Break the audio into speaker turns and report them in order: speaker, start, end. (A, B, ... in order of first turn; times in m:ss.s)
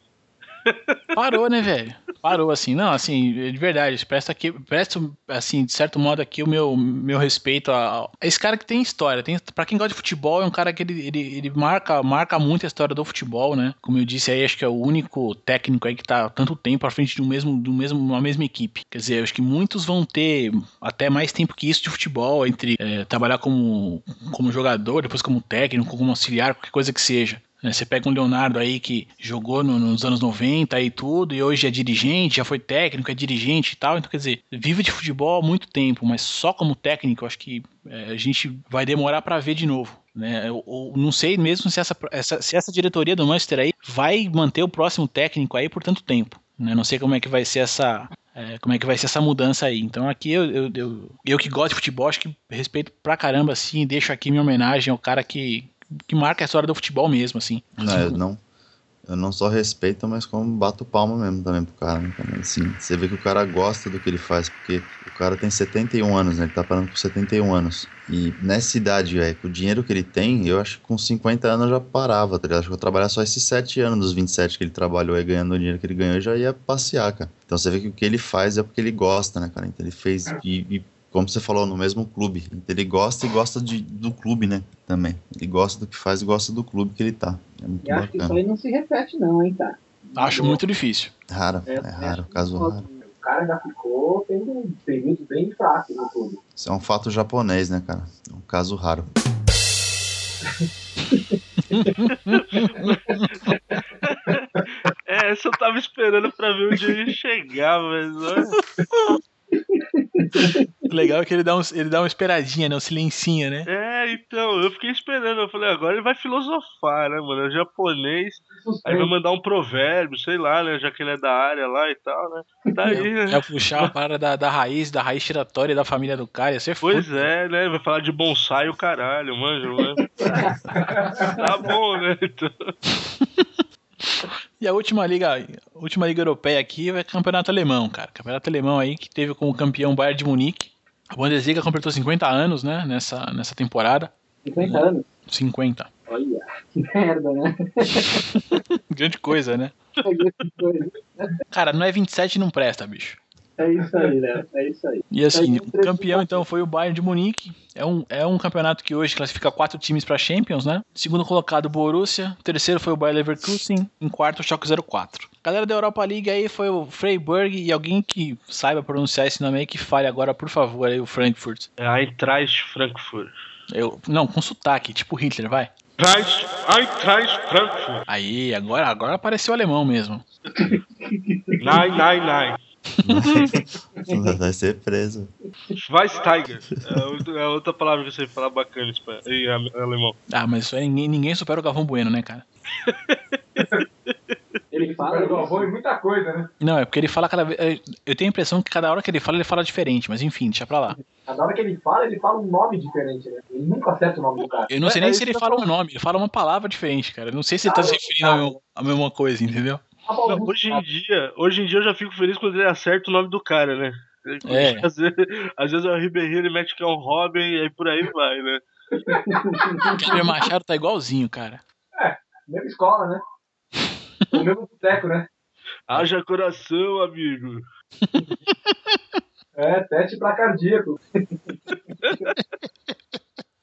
0:00.6-0:01.0 A
0:01.1-0:58.2 B
0:57.8-0:58.4 C
0:59.0-1:28.4 C
1:27.8-1:30.6 D
1:30.2-1:31.1 B
1:31.3-1:32.8 C
1:31.7-1:33.0 D
1:33.0-1:36.4 E
1:36.6-1:39.1 C
1:41.6-1:43.2 B
1:42.3-1:48.5 A
1:49.6-1:50.7 D
1:50.9-1:53.7 B
1:53.6-2:03.9 A
1:58.5-1:59.1 E
2:02.9-2:07.2 B
2:06.8-2:10.5 A
2:10.2-2:10.6 D
2:10.7-2:11.5 E
2:11.2-2:12.7 A
2:12.9-2:25.9 B
2:24.4-2:25.1 D
2:26.1-2:28.3 D
2:28.0-2:29.7 B
2:30.0-2:31.4 D
2:31.5-2:33.2 B
2:33.6-2:36.4 D
2:35.1-2:51.7 B
2:51.8-2:53.3 A
2:53.7-2:55.7 B
2:56.0-2:58.0 A
2:58.1-3:00.2 B
3:00.5-3:02.0 D
3:01.6-3:02.6 A
3:03.0-3:03.5 B
3:03.0-3:05.3 C
3:05.8-3:10.2 A
3:10.3-3:12.4 B
3:12.8-3:14.4 A
3:13.6-3:13.8 E
3:14.7-3:15.7 D
3:14.8-3:16.5 E
3:16.6-3:21.0 B
3:21.3-3:24.7 E
3:24.7-3:29.8 B
3:24.8-3:25.6 A
3:27.6-3:28.5 E
3:30.0-3:30.8 E
3:30.2-3:38.6 A
3:34.4-3:34.9 B
3:38.9-3:40.2 E
3:39.3-3:40.2 D
3:39.9-3:41.6 B
3:42.0-3:43.2 E
3:44.3-3:45.3 E
3:45.9-3:47.6 A
3:48.0-3:49.0 B
3:49.6-3:51.7 E
3:52.0-3:52.3 A